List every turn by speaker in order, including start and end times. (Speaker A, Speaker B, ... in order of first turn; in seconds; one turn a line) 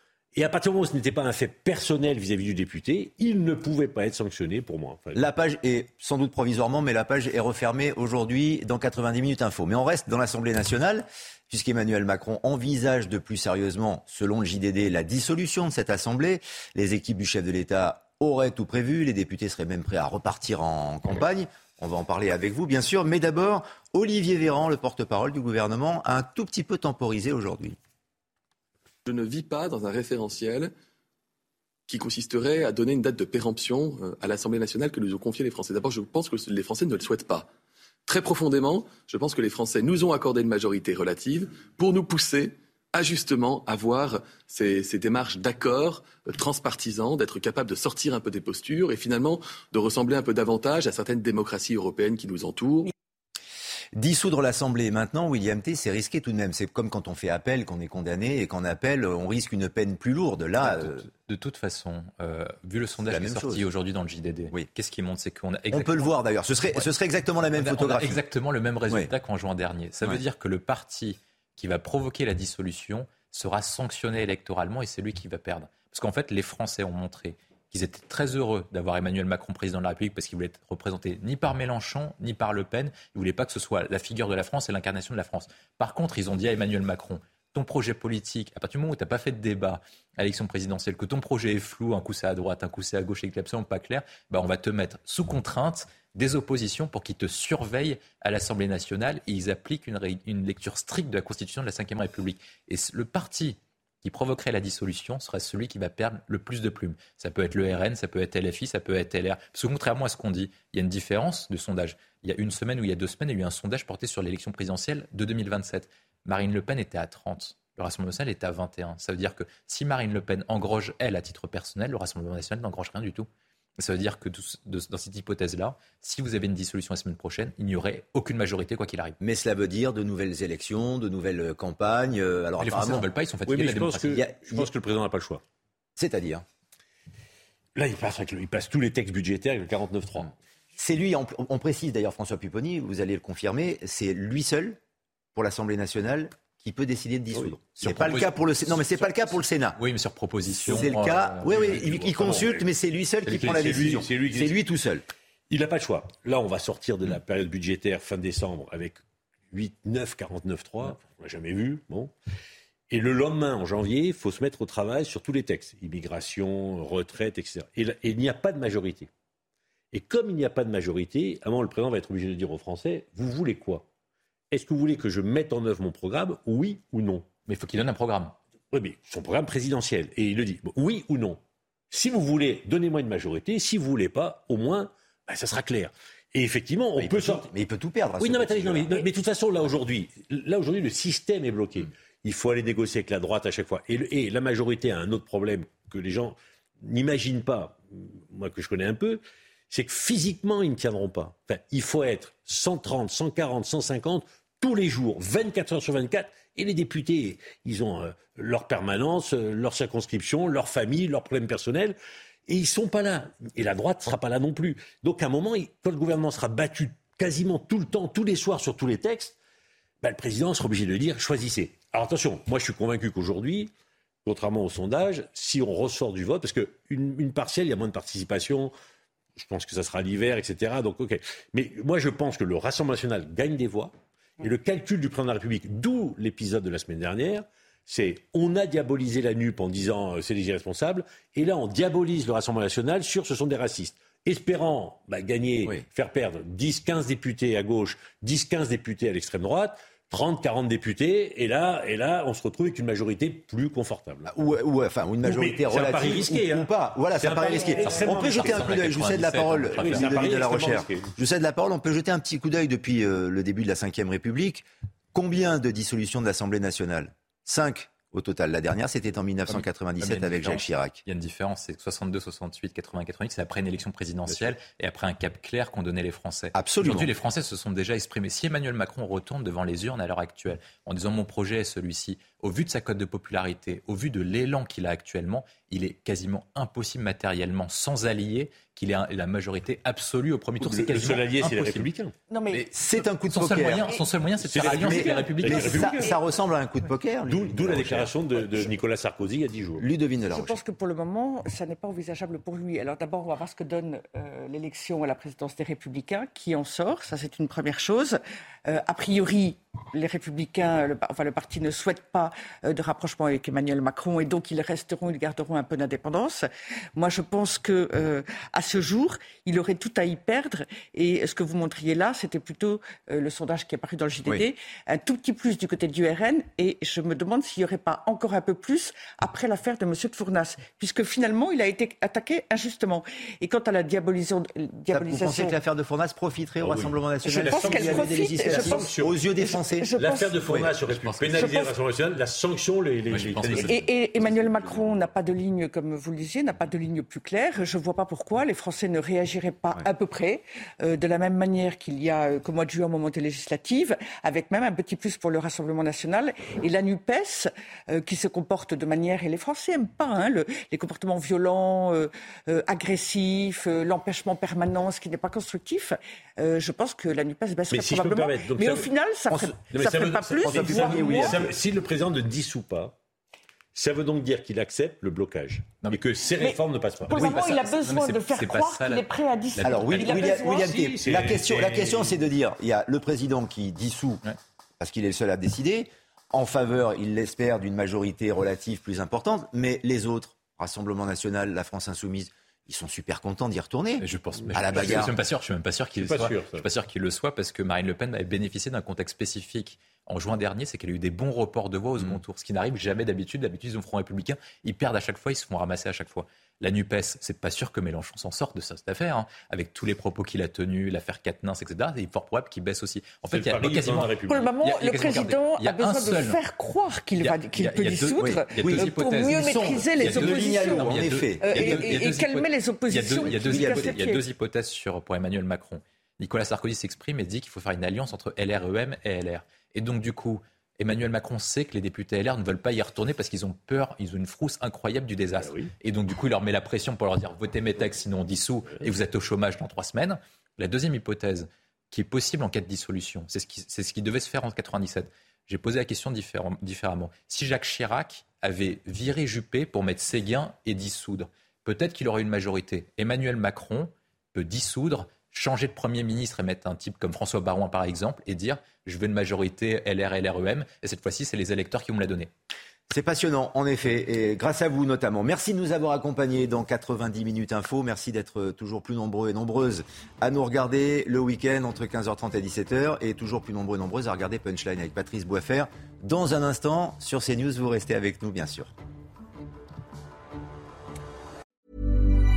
Speaker A: 0.3-5.2
Speaker B: 5.1-27.8
Speaker C: 29.1-30.7
Speaker C: 31.9-37.5
Speaker C: 38.1-52.9
Speaker B: 54.0-61.0
Speaker D: 60.6-66.1
Speaker B: 63.1-63.7
Speaker B: 65.7-68.2
Speaker D: 67.5-129.2
Speaker B: 129.2-133.1
Speaker D: 132.6-134.2
Speaker A: 133.4-135.4
Speaker B: 134.1-134.7
Speaker B: 136.0-136.4
Speaker A: 137.8-140.3
Speaker B: 140.8-144.8
Speaker B: 145.3-149.8
Speaker A: 147.3-147.7
Speaker D: 147.8-149.1
Speaker D: 149.8-152.4
Speaker B: 150.5-155.1
Speaker A: 150.6-152.6
Speaker A: 153.2-154.6
Speaker A: 155.5-162.1
Speaker A: 162.9-169.1
Speaker A: 169.9-173.9
Speaker A: 174.5-177.3
Speaker D: 177.5-178.4
Speaker A: 178.7-187.5
Speaker B: 187.0-189.1
Speaker A: 188.2-219.4
Speaker A: 220.0-223.7
Speaker A: 224.2-228.7
Speaker A: 229.4-254.3
Speaker B: 254.3-271.0
Speaker A: 255.2-259.1
Speaker D: 257.9-260.1
Speaker A: 259.7-261.1
Speaker D: 269.5-291.9
Speaker B: 276.6-277.1
Speaker A: 290.6-292.1
Speaker E: 292.3-292.7
Speaker B: 292.7-293.9
Speaker D: 293.3-296.0
Speaker A: 294.4-296.1
Speaker B: 294.5-298.6
Speaker A: 297.3-299.9
Speaker B: 299.8-300.6
Speaker E: 300.3-335.6
Speaker B: 334.9-339.9
Speaker A: 336.6-339.2
Speaker E: 337.3-340.5
Speaker A: 340.0-343.8
Speaker B: 340.5-340.7
Speaker D: 340.9-341.5
Speaker E: 341.4-341.7
Speaker D: 343.1-343.9
Speaker E: 343.7-371.4
Speaker A: 367.7-368.9
Speaker A: 369.7-372.9
Speaker B: 370.4-371.5
Speaker A: 373.7-377.5
Speaker E: 376.4-380.8
Speaker D: 377.1-380.4
Speaker B: 379.6-384.2
Speaker A: 380.1-382.2
Speaker B: 384.8-395.1
Speaker D: 394.0-416.4
Speaker A: 394.6-395.1
Speaker A: 396.0-396.7
Speaker A: 413.3-414.7
Speaker E: 414.3-424.2
Speaker D: 417.2-462.3
Speaker B: 418.2-422.1
Speaker B: 423.2-424.0
Speaker A: 435.4-435.7
Speaker B: 462.9-478.7